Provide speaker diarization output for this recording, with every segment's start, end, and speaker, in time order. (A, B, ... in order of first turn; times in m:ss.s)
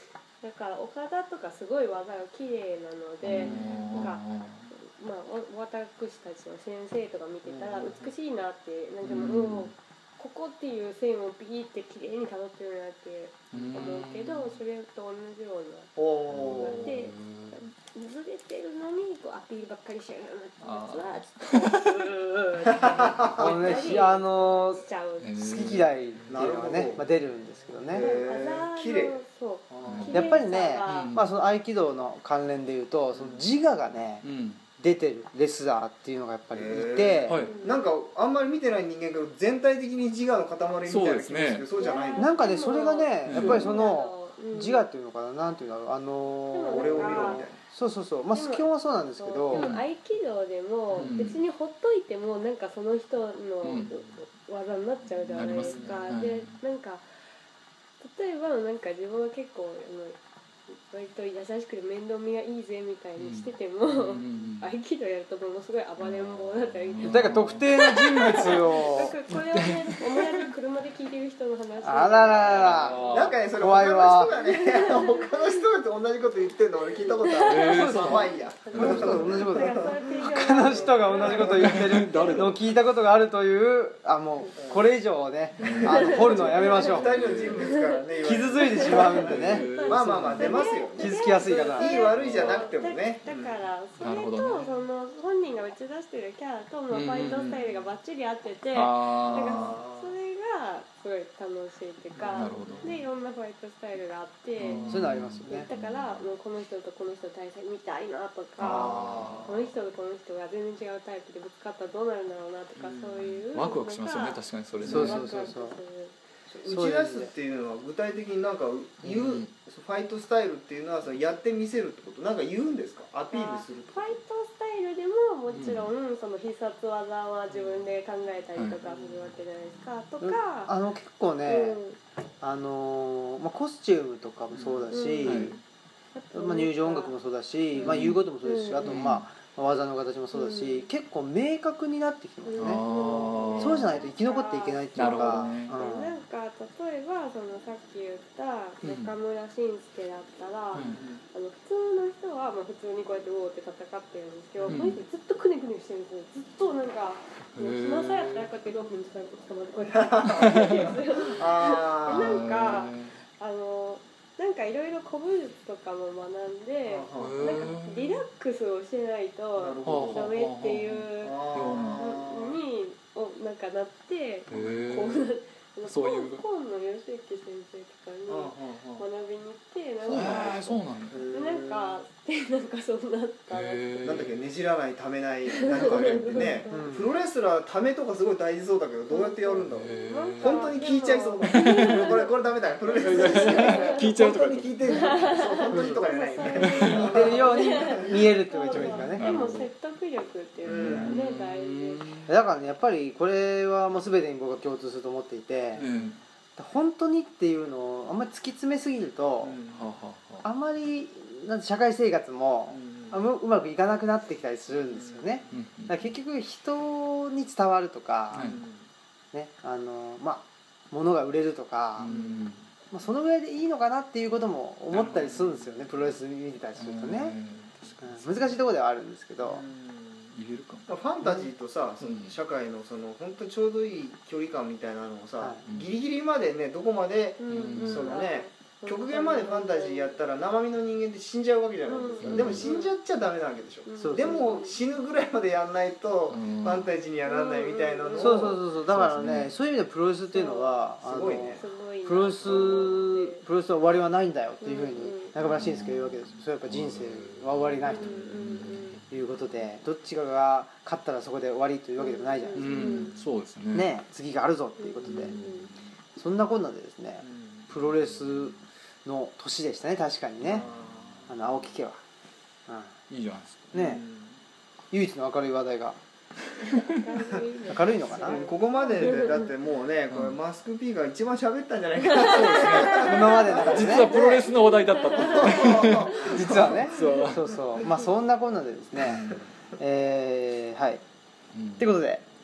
0:00.4-0:25.6 A
0:03.2-0:04.7 B
0:03.3-0:04.1 C
0:07.4-0:08.1 C
0:09.0-0:09.7 B
0:13.5-0:14.6 B
0:16.0-0:17.0 C
0:16.3-0:17.6 B
0:20.6-0:21.8 B
0:22.7-0:23.2 B
0:22.7-0:23.8 C
0:23.3-0:24.8 D
0:25.2-0:25.9 B
0:25.4-0:28.1 D
0:26.3-0:27.1 C
0:27.9-0:30.2 C
0:27.9-0:31.2 A
0:29.8-0:31.3 B
0:30.1-0:34.3 D
0:33.1-0:33.4 C
0:34.2-0:34.6 B
0:34.8-0:37.5 D
0:36.5-0:42.3 C
0:37.2-0:37.6 B
0:37.4-0:37.9 A
0:40.9-0:41.7 B
0:41.8-0:44.9 A
0:42.2-0:49.7 D
0:43.3-0:43.7 B
0:46.5-0:47.5 A
0:46.7-0:47.6 C
0:48.3-0:57.1 A
0:49.5-0:49.8 B
0:50.9-0:51.4 B
0:53.6-0:54.0 B
0:55.3-0:56.6 B
0:58.0-1:00.2 A
1:00.7-1:12.8 A
1:03.2-1:04.7 B
1:06.0-1:08.8 B
1:07.0-1:09.2 D
1:09.3-1:10.4 B
1:11.8-1:13.0 D
1:12.4-1:13.4 B
1:13.0-1:21.7 C
1:13.5-1:14.4 D
1:14.3-1:15.6 A
1:16.9-1:22.5 A
1:17.4-1:19.4 B
1:17.7-1:27.2 D
1:21.3-1:22.7 B
1:24.6-1:24.9 C
1:25.6-1:27.8 B
1:25.6-1:33.7 C
1:25.9-1:26.9 A
1:27.5-1:28.0 A
1:28.2-1:29.7 D
1:28.6-1:56.1 A
1:29.1-1:30.6 B
1:31.0-1:32.1 D
1:32.1-1:32.7 B
1:34.0-1:34.7 B
1:36.9-1:37.6 B
1:37.2-1:37.7 C
1:38.7-1:39.8 B
1:39.3-1:40.2 C
1:42.2-1:43.0 C
1:42.2-1:43.1 B
1:44.6-1:46.2 B
1:44.9-1:45.7 D
1:48.6-1:49.7 C
1:48.6-1:49.5 B
1:52.8-1:53.4 C
1:53.5-1:55.3 B
1:54.8-1:55.1 C
1:54.9-1:55.8 D
1:56.5-1:57.3 D
1:56.6-2:04.2 C
1:59.0-1:59.5 B
2:03.3-2:10.7 A
2:05.5-2:05.9 B
2:08.9-2:09.2 C
2:10.2-2:11.8 D
2:11.5-2:12.0 A
2:12.4-2:15.6 D
2:14.6-2:15.6 B
2:14.9-2:15.6 A
2:16.1-2:17.1 A
2:16.3-2:22.8 D
2:17.7-2:19.0 A
2:17.8-2:18.2 B
2:18.8-2:19.2 B
2:20.3-2:20.9 A
2:22.4-3:04.0 A
2:22.6-2:24.0 B
2:23.6-2:26.2 D
2:25.0-2:25.8 B
2:28.8-2:29.1 B
2:30.7-2:31.0 B
2:30.9-2:31.2 C
2:34.6-2:34.9 C
2:34.7-2:35.0 B
2:37.6-2:38.5 B
2:39.9-2:42.6 C
2:40.3-2:41.0 B
2:42.0-2:43.2 B
2:46.9-2:47.7 C
2:47.2-2:48.2 B
2:49.6-2:50.4 C
2:49.8-2:52.1 B
2:51.2-2:52.6 C
2:54.5-2:55.3 B
2:54.5-2:55.0 C
2:55.8-2:56.4 B
2:58.3-2:59.0 C
3:00.0-3:01.2 B
3:01.1-3:02.0 C
3:03.5-3:04.4 B
3:04.0-3:19.1 C
3:05.5-3:06.9 A
3:05.7-3:06.6 B
3:06.7-3:07.1 D
3:09.1-3:12.3 A
3:09.6-3:10.8 B
3:11.4-3:12.2 B
3:12.9-3:15.6 B
3:13.0-3:22.2 A
3:15.7-3:16.0 D
3:16.4-3:17.3 B
3:17.0-3:19.3 D
3:18.8-3:19.7 B
3:20.6-3:22.3 B
3:20.6-3:21.2 C
3:22.3-3:25.9 D
3:25.7-3:26.2 B
3:26.6-3:29.6 D
3:29.4-3:29.9 C
3:29.7-3:30.5 B
3:30.4-3:38.5 D
3:32.7-3:33.3 C
3:34.9-3:35.6 C
3:35.5-3:36.0 B
3:38.3-3:38.6 B
3:38.4-3:38.9 C
3:39.3-3:42.1 D
3:42.0-3:42.7 B
3:42.1-3:42.4 C
3:42.9-3:47.4 D
3:44.9-3:45.4 B
3:46.8-3:48.6 B
3:48.0-3:49.6 D
3:49.4-3:50.4 C
3:50.3-3:51.0 B
3:50.9-4:08.6 C
3:52.0-3:52.4 B
3:57.4-4:00.2 A
3:57.5-3:58.2 B
4:01.8-4:02.9 A
4:02.2-4:02.7 B
4:03.9-4:04.8 A
4:04.0-4:04.7 D
4:06.3-4:07.0 B
4:07.2-4:08.5 A
4:08.2-4:18.2 D
4:08.9-4:09.5 B
4:10.3-4:13.4 A
4:11.0-4:11.6 C
4:12.4-4:13.0 C
4:14.6-4:15.3 A
4:15.4-4:19.0 B
4:17.8-4:19.0 A
4:19.1-4:23.0 D
4:22.0-4:23.2 A
4:22.6-4:24.0 B
4:23.7-4:25.4 D
4:24.8-4:25.7 A
4:25.0-4:25.8 B
4:26.2-4:30.7 D
4:27.2-4:27.7 C
4:30.4-4:31.3 C
4:31.3-4:32.0 D
4:32.7-4:32.9 D
4:33.1-4:33.7 B
4:33.7-4:34.0 D
4:33.7-4:34.4 C
4:34.9-4:36.0 D
4:36.8-4:39.5 A
4:37.7-4:38.5 D
4:38.2-4:44.5 C
4:40.1-4:40.4 B
4:42.1-4:46.3 A
4:42.1-4:47.6 B
4:43.0-4:44.2 D
4:45.2-4:47.1 C
4:46.2-4:51.0 D
4:47.0-4:47.2 A
4:49.0-4:49.5 B
4:51.5-4:51.9 B
4:51.8-4:52.2 D